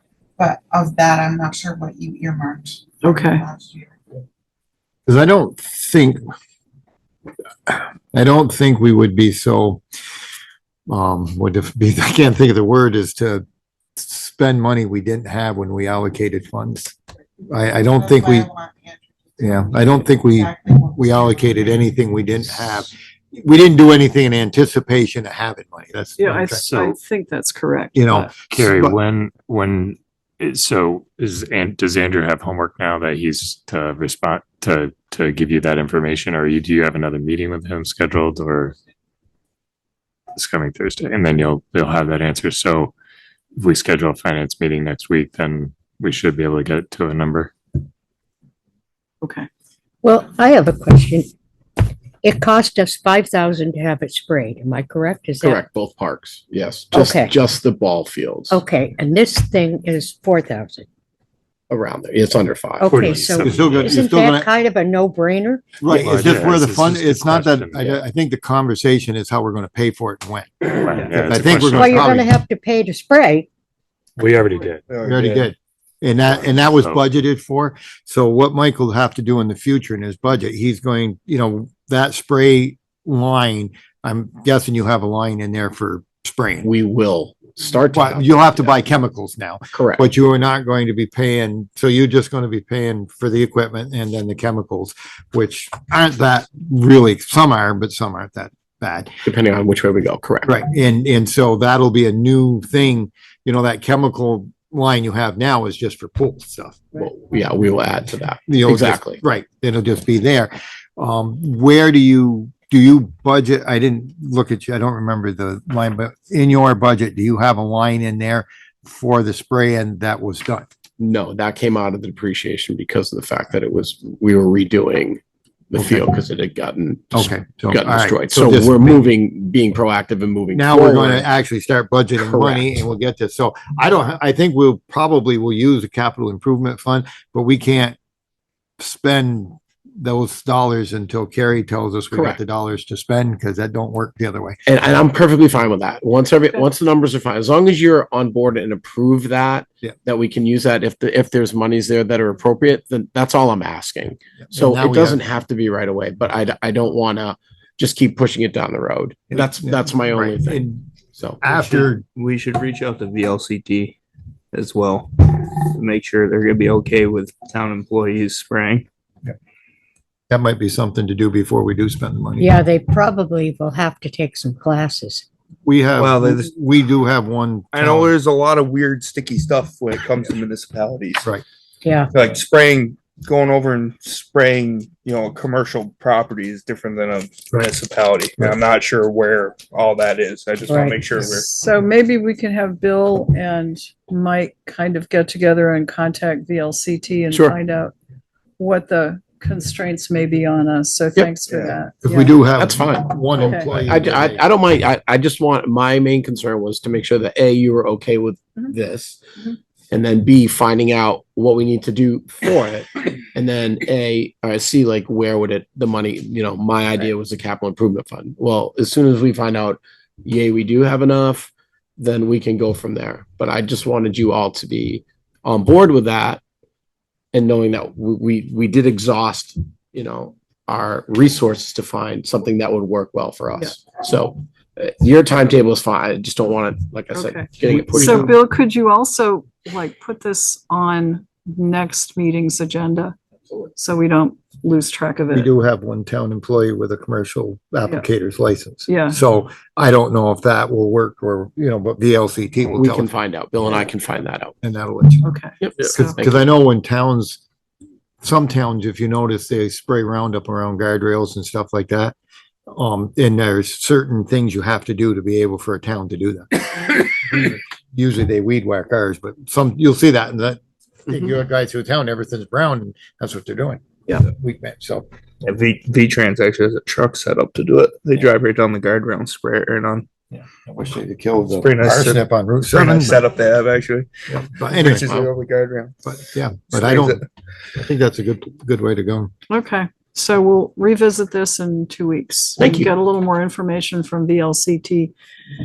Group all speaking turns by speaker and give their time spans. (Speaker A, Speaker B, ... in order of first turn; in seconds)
Speaker A: 0.4-4.0, 17.8-22.0
Speaker B: 3.0-3.4, 26.2-28.3, 49.2-49.5, 191.2-197.9, 198.6-202.4, 203.4-203.7, 237.1-243.2, 243.7-245.5, 248.9-249.2, 255.2-256.2, 289.5-295.1
Speaker C: 5.1-6.2, 7.7-9.8, 10.9-13.4, 14.0-16.9, 17.5-18.5, 19.4-26.6, 27.9-29.0, 63.4-64.5, 65.8-72.3, 75.0-86.7, 87.9-99.2, 100.5-107.0, 108.5-120.7, 125.8-126.1, 127.1-129.1, 130.5-138.0, 138.8-144.6, 154.5-155.2, 159.3-160.9, 161.4-162.0, 170.3-172.5, 175.7-178.1, 202.0-204.5, 237.6-238.3, 245.3-253.1, 254.6-257.4, 258.2-262.1, 262.7-275.1, 280.6-283.2, 284.3-285.0, 286.1-287.2, 287.8-289.3
Speaker D: 26.6-27.0, 28.5-38.8, 40.4-42.9, 43.6-47.5, 62.9-64.0, 65.8-68.0, 70.7-72.2, 74.2-74.8, 76.5-77.0
Speaker E: 50.0-51.3, 52.2-55.6, 56.9-57.4, 58.5-60.9, 62.8-65.8, 71.7-73.5, 172.4-175.2, 181.8-182.1, 190.7-191.0
Speaker F: 55.4-58.6, 61.7-63.4, 86.6-88.8, 89.7-90.1, 99.2-100.6, 106.9-109.2, 121.0-125.2, 125.7-131.3, 132.2-132.8, 142.1-142.4, 144.7-161.5, 197.3-197.6, 201.2-201.4, 202.6-209.2, 209.9-226.4, 227.3-238.4, 252.8-254.5, 255.6-256.5, 285.0-285.3, 292.6-292.9
Speaker G: 74.9-75.5, 161.5-164.0, 164.5-168.9, 176.0-176.5, 177.7-181.3, 182.1-191.5, 201.5-201.8, 275.4-280.1, 281.4-286.0, 286.7-287.2